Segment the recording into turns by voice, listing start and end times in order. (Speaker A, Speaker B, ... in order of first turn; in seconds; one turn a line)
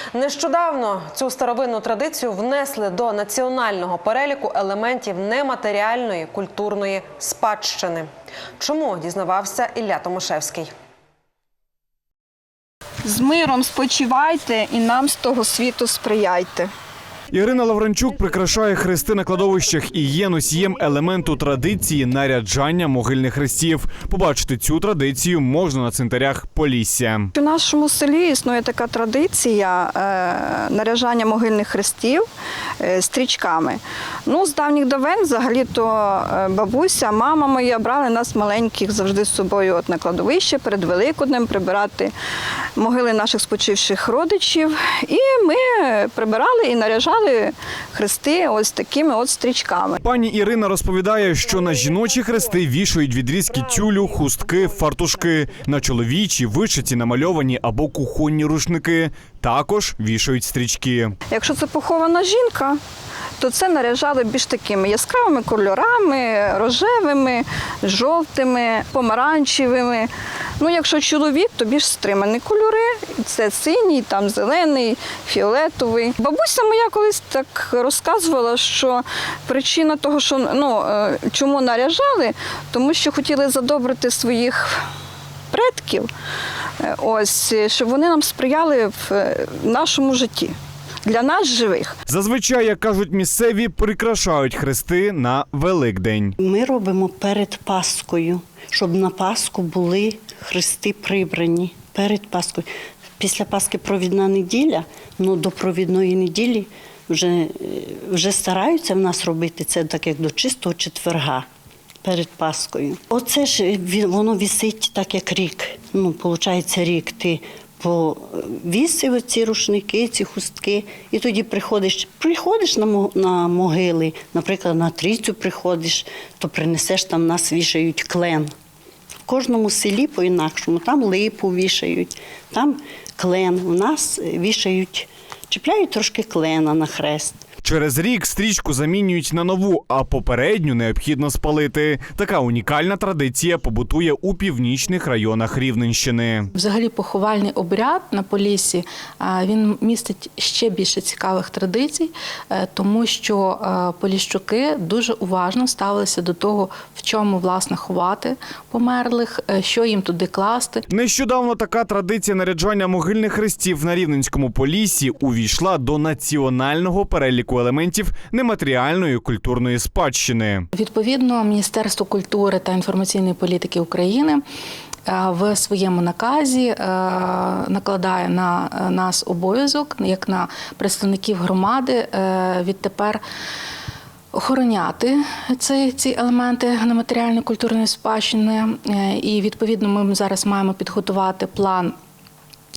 Speaker A: 0.1-10.7
Speaker B: 13.0-16.7
Speaker C: 17.3-27.3
Speaker B: 27.4-32.2
Speaker B: 32.8-42.1
Speaker B: 42.8-50.0
Speaker C: 50.0-61.1
Speaker B: 61.3-62.8
Speaker B: 63.4-84.8
Speaker B: 85.5-86.1
Speaker B: 86.8-91.9
Speaker C: 92.1-96.3
Speaker D: 96.4-102.7
Speaker D: 103.2-111.5
Speaker D: 112.0-128.5
Speaker D: 129.2-137.4
Speaker C: 137.6-146.5
Speaker E: 146.5-160.8
Speaker C: 160.9-170.6
Speaker E: 170.7-174.4
Speaker E: 175.1-183.2
Speaker E: 184.3-191.9